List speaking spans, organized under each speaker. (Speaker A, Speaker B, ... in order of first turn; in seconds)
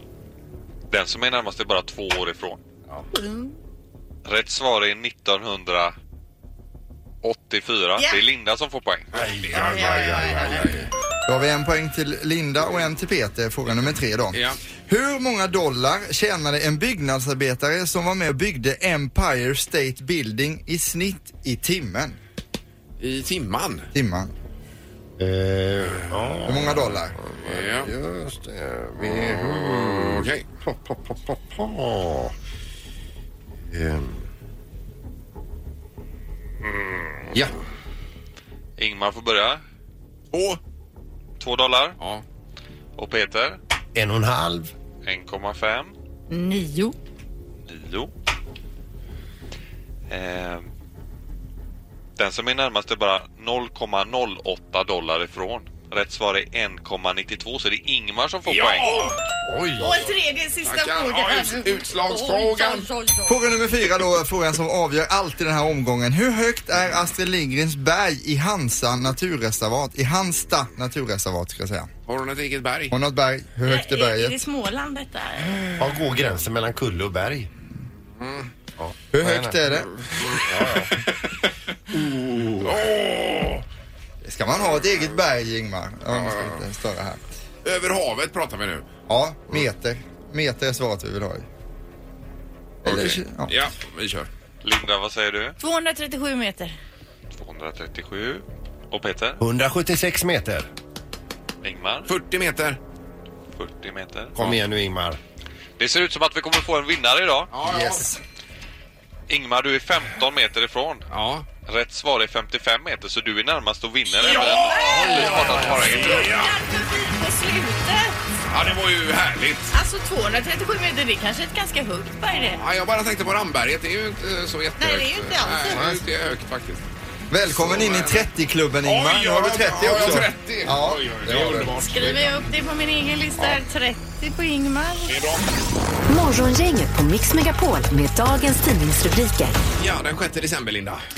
Speaker A: 0.9-2.6, 4.3-6.0, 7.2-9.1, 38.8-39.6, 41.4-42.0, 43.0-43.6, 45.0-45.9, 47.7-48.1, 50.1-50.7, 52.2-59.1, 94.6-95.6, 97.3-99.4, 101.6-102.1, 103.5-104.3, 105.8-107.5, 109.3-111.1, 111.7-116.4
Speaker B: 3.1-3.5, 9.5-10.7, 46.3-47.0, 59.8-63.4, 73.7-75.7, 95.6-96.8, 114.4-118.2, 119.7-122.6, 124.8-125.8, 131.8-135.2
Speaker C: 9.2-10.9, 14.3-14.6, 23.0-23.9, 27.4-27.9, 29.0-30.4, 40.3-40.6, 58.5-59.2, 60.6-62.9, 72.1-73.0, 78.2-78.5, 82.3-83.6, 84.5-85.2, 86.1-86.6, 87.6-88.8, 92.8-94.3, 102.1-102.8, 107.5-108.0, 111.1-111.5, 114.2-116.5, 118.5-119.7, 122.5-126.8, 127.5-128.3, 128.8-132.4, 135.1-135.5, 139.8-141.0
Speaker D: 9.2-10.9, 25.2-32.3, 33.7-34.2, 44.0-44.7, 59.5-60.0, 75.8-77.5, 78.8-81.0, 81.9-82.8, 99.4-100.7, 104.3-105.2, 125.7-126.0
Speaker E: 11.3-22.2, 23.9-24.3, 26.5-27.1, 63.3-71.9, 72.9-74.4, 79.1-80.3, 84.2-87.3, 89.1-91.5, 92.8-93.5, 107.6-108.2, 127.3-131.7
Speaker F: 136.1-139.6